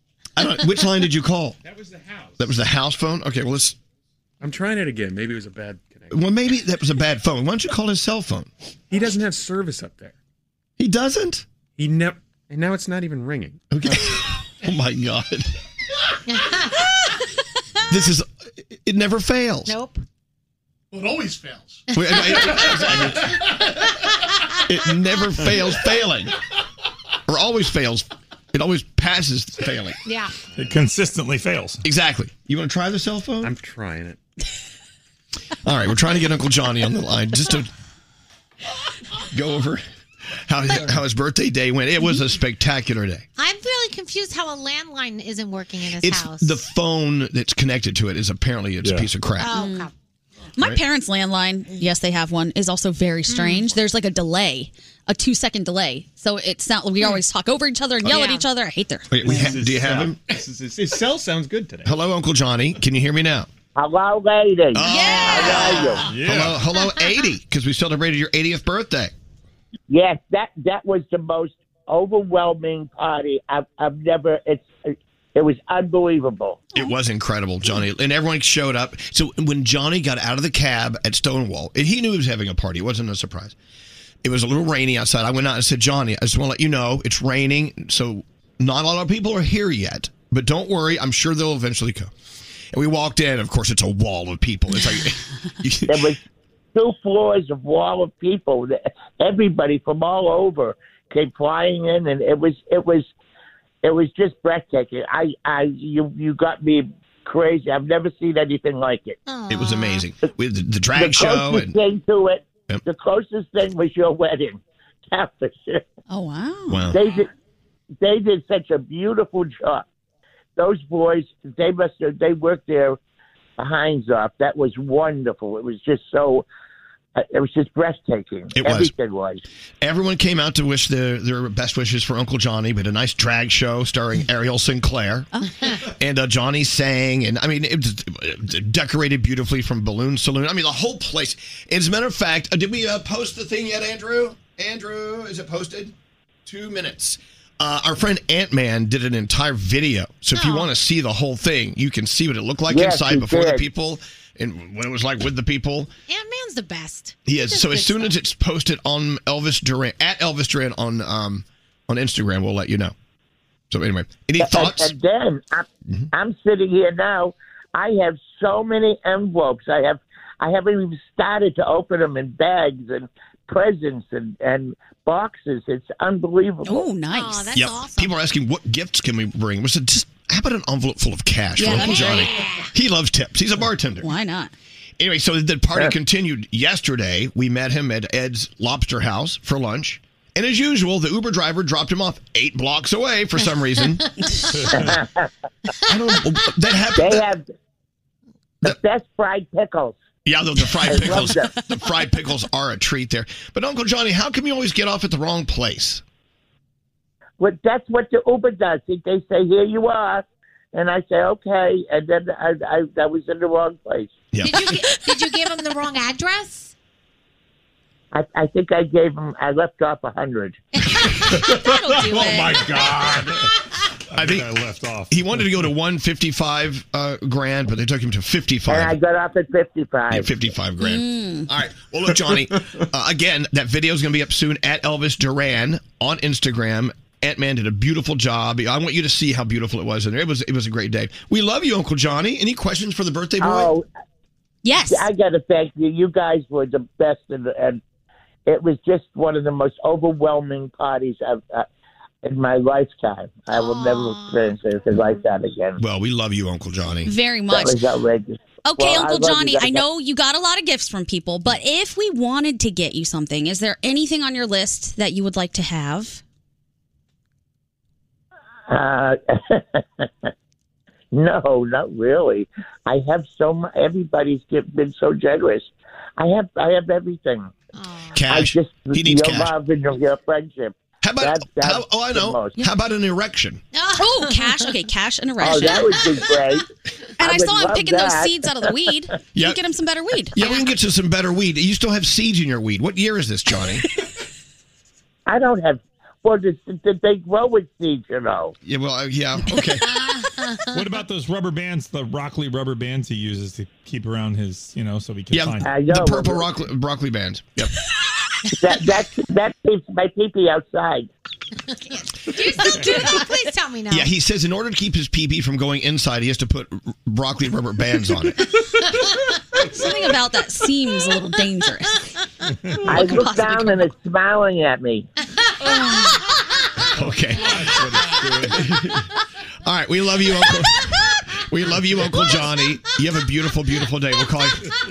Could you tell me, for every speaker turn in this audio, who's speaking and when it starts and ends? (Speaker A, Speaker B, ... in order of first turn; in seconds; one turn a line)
Speaker A: 0.3-1.6
Speaker B: 1.6-2.4
Speaker A: 2.4-3.8
Speaker B: 4.4-6.2
Speaker A: 6.1-8.5
Speaker B: 8.9-10.1
Speaker A: 10.8-11.4
Speaker B: 11.8-13.7
Speaker A: 13.7-15.5
Speaker C: 16.3-16.9
Speaker A: 17.9-19.8
Speaker C: 19.6-20.0
Speaker D: 20.9-23.8
Speaker A: 21.9-23.3
Speaker C: 21.9-22.7
Speaker A: 24.6-26.3
Speaker A: 27.3-30.0
Speaker C: 30.0-30.3
Speaker E: 30.6-31.8
Speaker A: 31.8-33.5
Speaker B: 33.4-34.2
Speaker A: 35.6-37.7
Speaker A: 39.3-39.8
Speaker A: 40.5-43.2
Speaker C: 43.4-46.6
Speaker A: 46.0-49.5
Speaker E: 48.8-49.1
Speaker C: 49.4-49.9
Speaker F: 49.4-49.9
Speaker F: 50.6-59.4
Speaker C: 53.3-53.7
Speaker C: 58.1-58.4
Speaker A: 59.1-60.2
Speaker B: 59.2-61.9
Speaker A: 61.8-63.5
Speaker G: 63.7-66.1
Speaker A: 64.7-69.1
Speaker F: 64.8-66.0
Speaker E: 66.1-66.6
Speaker G: 69.9-76.7
Speaker A: 76.7-83.5
Speaker A: 84.2-92.1
Speaker A: 92.7-96.1
Speaker G: 95.9-96.2
Speaker G: 96.7-103.1
Speaker G: 103.8-109.2
Speaker C: 109.2-110.0
Speaker A: 109.5-111.8
Speaker G: 110.9-115.8
Speaker F: 116.1-116.8
Speaker A: 116.7-117.0
Speaker G: 116.9-117.3
Speaker G: 118.0-119.8
Speaker G: 120.6-123.0
Speaker G: 123.6-126.5
Speaker G: 127.2-129.4
Speaker A: 128.5-128.9
Speaker A: 129.8-135.3
Speaker A: 135.8-145.9
Speaker A: 146.4-155.9
Speaker C: 150.3-150.7
Speaker G: 152.7-153.6
Speaker C: 156.1-158.2
Speaker A: 157.2-162.9
Speaker A: 163.7-164.9
Speaker G: 164.4-176.9
Speaker F: 176.7-177.6
Speaker C: 177.1-178.2
Speaker A: 177.5-184.1
Speaker F: 181.6-182.3
Speaker C: 181.6-182.7
Speaker F: 184.0-184.5
Speaker A: 185.0-194.0
Speaker E: 194.6-194.9
Speaker G: 194.8-195.3
Speaker A: 195.8-197.3
Speaker G: 196.9-197.4
Speaker G: 198.6-200.0
Speaker A: 200.2-206.0
Speaker G: 200.8-201.5
Speaker G: 207.4-214.2
Speaker A: 214.3-214.7
Speaker C: 214.4-216.7
Speaker G: 218.1-220.6
Speaker F: 221.3-222.6
Speaker B: 221.5-223.3
Speaker A: 224.1-224.5
Speaker E: 224.2-225.7
Speaker A: 225.1-229.0
Speaker G: 228.7-230.4
Speaker A: 230.1-243.7
Speaker F: 230.8-231.5
Speaker G: 243.4-243.8
Speaker F: 244.6-245.1
Speaker G: 244.9-247.8
Speaker G: 248.5-251.7
Speaker G: 252.2-255.8
Speaker C: 253.5-254.5
Speaker A: 255.8-257.1
Speaker F: 257.0-257.8
Speaker G: 257.5-259.8
Speaker F: 258.6-266.2
Speaker G: 268.7-270.3
Speaker G: 271.1-277.5
Speaker C: 277.7-278.2
Speaker A: 278.1-279.5
Speaker G: 278.3-282.6
Speaker A: 281.0-283.6
Speaker C: 283.7-284.7
Speaker F: 283.9-286.0
Speaker G: 285.4-286.6
Speaker F: 287.2-290.5
Speaker G: 287.2-288.3
Speaker A: 289.3-289.6
Speaker A: 290.3-293.8
Speaker G: 295.3-298.5
Speaker A: 298.6-299.9
Speaker C: 299.9-300.5
Speaker E: 300.7-305.7
Speaker A: 305.3-307.7
Speaker G: 305.6-306.5
Speaker G: 308.5-311.1
Speaker C: 311.6-314.1
Speaker A: 313.9-318.4
Speaker F: 319.6-322.1
Speaker G: 322.8-325.1
Speaker F: 322.9-323.9
Speaker A: 326.9-329.1
Speaker E: 327.0-328.6
Speaker A: 329.6-334.7